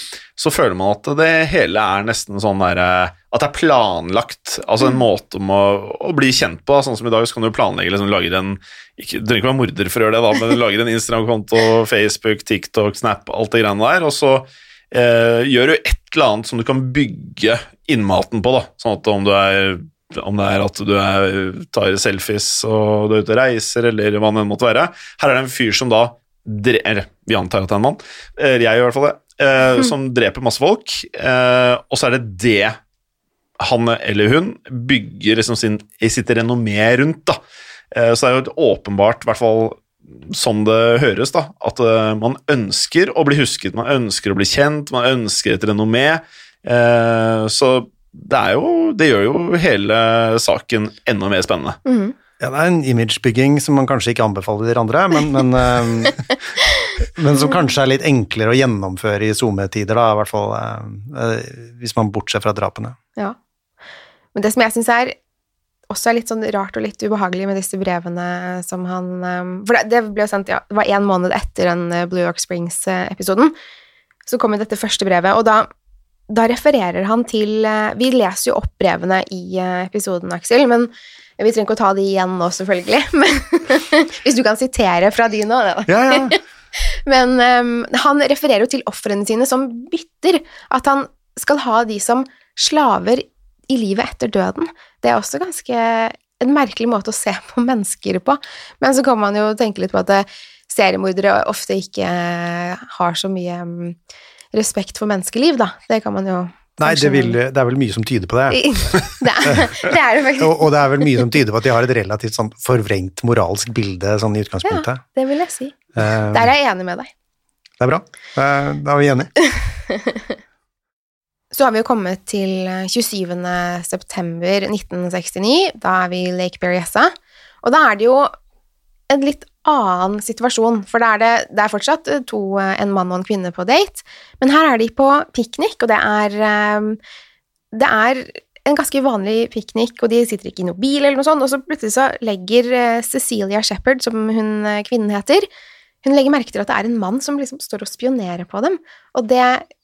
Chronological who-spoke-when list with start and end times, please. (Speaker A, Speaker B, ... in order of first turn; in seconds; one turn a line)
Speaker A: 0.3-32.8
Speaker A: 33.6-37.4
Speaker A: 37.9-51.8
Speaker B: 51.9-52.1
Speaker C: 52.4-56.2
Speaker C: 57.1-63.0
Speaker B: 64.3-65.1
Speaker B: 65.9-73.5
Speaker B: 74.3-75.7
Speaker B: 76.3-104.0
Speaker C: 85.9-86.4
Speaker B: 104.5-107.4
Speaker C: 106.8-115.0
Speaker B: 108.5-110.7
Speaker B: 114.6-117.1
Speaker C: 116.0-116.5
Speaker C: 117.8-119.3
Speaker B: 119.5-120.2
Speaker B: 121.5-128.3
Speaker B: 129.1-137.0
Speaker B: 137.7-145.5
Speaker B: 146.0-149.7